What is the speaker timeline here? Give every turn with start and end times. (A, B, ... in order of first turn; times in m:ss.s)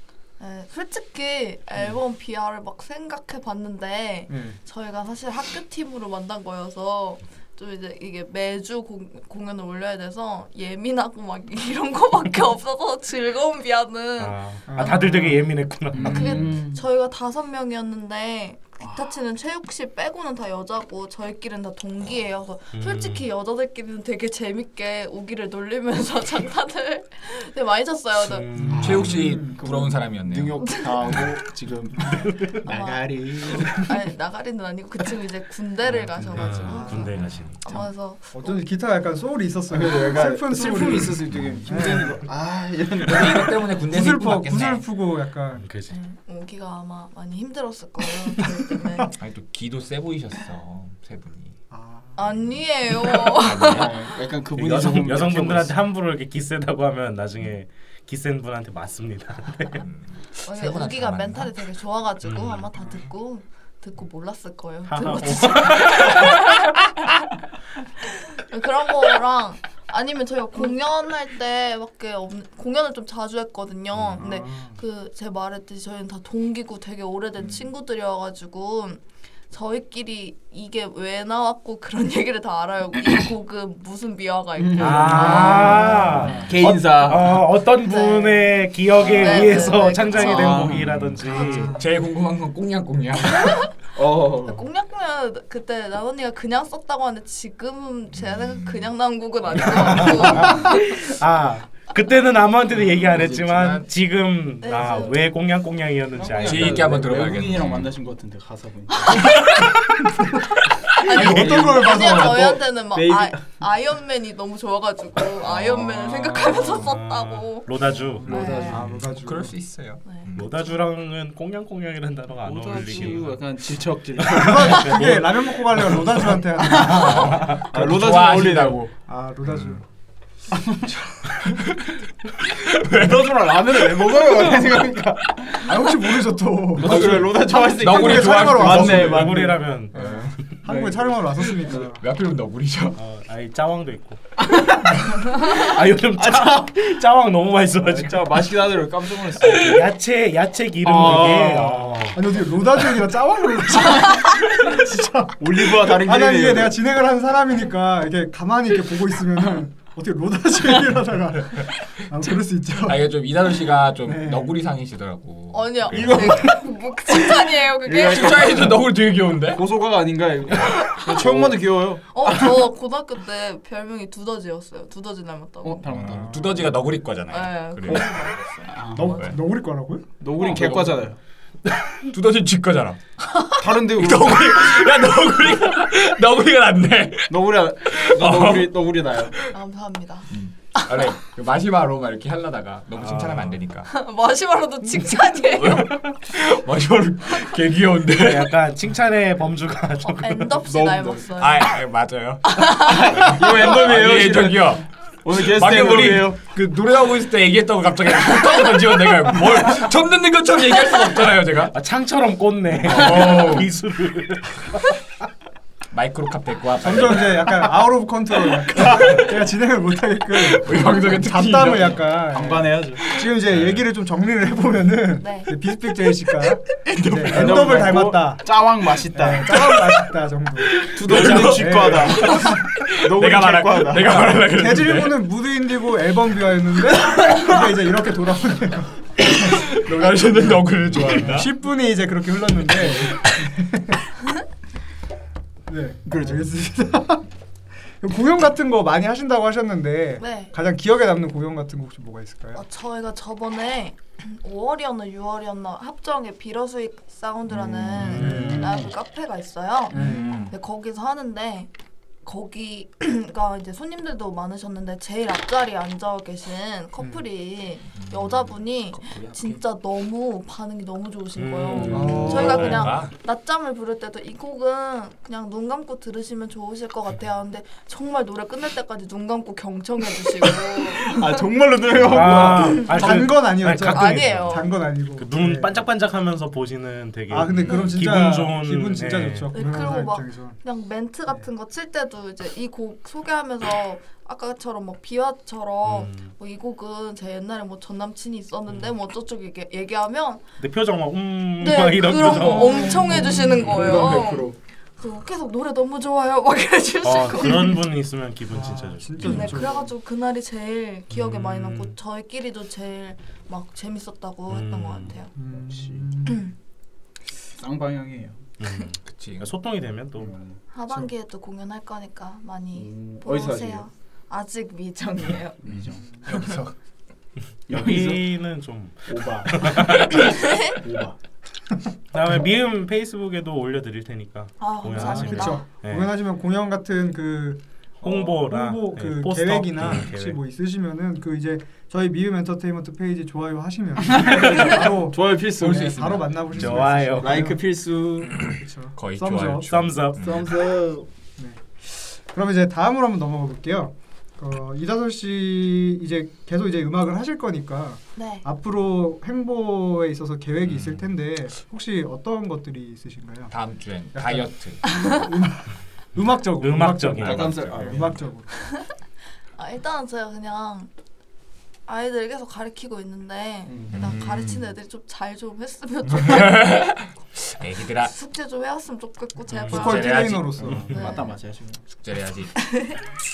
0:00.4-0:15.3 A
0:04.3-0:04.6 B
0:14.2-0:16.5 C
0:14.7-0:15.4 B
0:15.9-0:16.8 D
0:16.0-0:28.5 A
0:18.8-0:19.1 D
0:22.7-0:23.3 C
0:28.2-0:29.2 C
0:28.6-0:29.6 B
0:28.8-0:33.9 D
0:28.8-0:30.8 E
0:30.6-0:31.2 A
0:32.7-0:38.6 A
0:36.2-0:37.6 C
0:36.3-0:37.2 B
0:38.3-0:42.3 B
0:39.7-0:43.6 D
0:43.0-0:44.8 E
0:43.9-0:45.6 B
0:45.6-0:46.0 C
0:45.9-0:49.1 A
0:49.2-0:51.6 E
0:51.7-0:52.3 B
0:52.2-0:54.0 A
0:53.4-0:54.0 E
0:53.6-0:55.8 D
0:54.6-0:59.8 C
0:59.8-1:01.5 E
1:00.4-1:06.7 A
1:02.2-1:02.7 C
1:04.9-1:06.5 C
1:08.1-1:25.9 A
1:14.2-1:14.8 B
1:24.6-1:27.5 D
1:24.8-1:31.8 C
1:25.1-1:26.5 B
1:27.8-1:30.7 A
1:29.0-1:29.3 D
1:30.2-1:33.7 E
1:30.2-1:30.9 D
1:31.3-1:31.7 A
1:33.2-1:33.7 A
1:34.0-1:34.6 D
1:34.4-1:41.0 A
1:38.2-1:38.9 E
1:39.6-1:40.4 E
1:39.6-1:47.0 C
1:42.7-1:43.9 E
1:44.6-1:45.2 A
1:46.1-1:49.5 D
1:46.4-1:47.9 E
1:51.0-1:57.7 A
1:51.1-1:53.5 D
1:51.1-1:52.6 B
1:51.2-1:51.6 C
1:56.4-1:56.7 B
1:56.8-1:58.8 C
1:58.2-2:00.7 E
1:58.3-1:58.9 A
1:58.4-1:59.5 B
2:00.4-2:03.4 C
2:02.4-2:05.1 D
2:04.2-2:05.6 C
2:04.4-2:07.4 B
2:06.6-2:08.9 D
2:06.8-2:07.7 C
2:06.8-2:08.8 E
2:09.1-2:09.8 B
2:09.5-2:09.8 E
2:10.6-2:10.8 D
2:10.8-2:11.4 B
2:11.5-2:11.9 E
2:12.5-2:14.3 E
2:12.9-2:15.8 D
2:15.6-2:22.0 B
2:16.8-2:20.1 D
2:16.8-2:19.3 E
2:19.0-2:20.5 C
2:20.7-2:21.7 D
2:21.7-2:23.0 E
2:23.0-2:24.2 C
2:24.4-2:25.6 D
2:25.2-2:28.5 C
2:26.1-2:26.7 D
2:27.8-2:29.9 D
2:29.4-2:32.2 C
2:30.8-2:32.0 D
2:32.1-2:43.1 B
2:35.4-2:36.8 D
2:42.8-2:46.5 E
2:44.0-2:44.5 B
2:45.5-2:48.7 A
2:45.9-2:46.6 D
2:47.2-2:48.9 D
2:48.0-2:49.7 E
2:49.5-2:52.7 D
2:50.7-2:51.1 A
2:51.1-2:51.5 E
2:52.1-2:55.9 A
2:55.6-2:56.6 D
2:55.9-2:58.1 E
2:56.2-2:56.6 B
2:57.3-2:59.3 A
2:58.7-2:59.2 D
2:59.0-3:00.1 B
3:00.2-3:01.2 D
3:00.4-3:01.1 E
3:02.0-3:03.0 E
3:03.5-3:04.7 D
3:03.8-3:08.8 E
3:07.3-3:09.4 D
3:09.5-3:11.1 A
3:10.3-3:13.9 E
3:13.0-3:13.6 C
3:13.9-3:16.0 A
3:15.6-3:18.6 E
3:18.2-3:20.6 C
3:20.1-3:21.7 A
3:20.6-3:21.3 D
3:21.4-3:31.7 E
3:22.5-3:23.0 A
3:22.8-3:26.4 D
3:31.7-3:34.9 C
3:32.8-3:33.7 E
3:35.9-3:37.6 E
3:36.8-3:48.5 B
3:38.8-3:39.2 D
3:40.5-3:42.1 E
3:42.3-3:43.2 D
3:43.5-3:43.8 E
3:45.2-3:45.5 A
3:46.9-3:47.7 E
3:47.2-3:49.6 D
3:49.1-3:52.6 B
3:50.8-3:54.4 D
3:51.0-3:55.2 E
3:54.4-3:59.1 B
3:59.2-4:01.5 E
4:01.1-4:04.0 B
4:05.7-4:07.3 B
4:06.1-4:06.4 D
4:08.0-4:12.6 B
4:10.2-4:10.5 A
4:12.6-4:20.0 A
4:17.8-4:18.3 E
4:18.0-4:18.8 B
4:18.0-4:18.7 C
4:19.9-4:20.5 B
4:19.9-4:20.5 E
4:20.5-4:21.7 A
4:22.2-4:41.2 A
4:27.9-4:29.6 E
4:31.4-4:32.9 C
4:31.8-4:32.9 B
4:32.0-4:33.1 E
4:40.9-4:43.0 D
4:42.0-4:49.5 C
4:42.5-4:43.2 A
4:42.9-4:45.9 B
4:43.8-4:44.8 A
4:47.3-4:50.6 B
4:47.6-4:48.0 A
4:49.5-5:00.4 A
4:55.9-4:56.3 C
5:00.6-5:04.1 C
5:01.6-5:07.8 A
5:02.5-5:03.3 B
5:03.2-5:04.6 D
5:07.0-5:09.6 C
5:08.5-5:09.9 B
5:09.2-5:15.3 A
5:11.1-5:11.9 C
5:14.5-5:15.2 C
5:15.4-5:16.4 B
5:15.5-5:16.2 D
5:16.3-5:16.5 A
5:17.6-5:18.4 D
5:18.6-5:20.4 C
5:19.0-5:19.5 E
5:20.2-5:20.6 D
5:20.7-5:25.6 A
5:22.7-5:23.9 D
5:25.6-5:26.7 D
5:26.3-5:26.6 A
5:26.3-5:26.6 E
5:27.7-5:28.3 D
5:27.7-5:30.3 C
5:29.1-5:31.2 D
5:30.2-5:30.8 A
5:32.1-5:36.1 C
5:34.6-5:35.6 A
5:34.9-5:47.6 B
5:38.0-5:40.4 C
5:44.0-5:46.2 D
5:46.5-5:47.5 C
5:47.2-5:48.4 D
5:48.2-5:49.7 B
5:48.3-5:50.6 E
5:49.7-5:50.4 C
5:50.2-5:51.1 D
5:51.4-6:03.5 B
5:58.2-5:58.4 A
6:03.5-6:04.8 E
6:04.1-6:08.5 B
6:04.8-6:05.2 A
6:06.6-6:07.6 C
6:07.2-6:08.2 E
6:07.2-6:08.1 D
6:08.6-6:08.9 A
6:09.6-6:10.9 A
6:11.9-6:16.9 A
6:13.7-6:14.1 D
6:13.9-6:14.7 E
6:16.1-6:18.1 E
6:18.0-6:21.3 A
6:19.5-6:19.9 C
6:19.7-6:21.0 B
6:19.8-6:20.8 E
6:20.7-6:21.8 D
6:22.0-6:22.7 E
6:22.6-6:23.0 A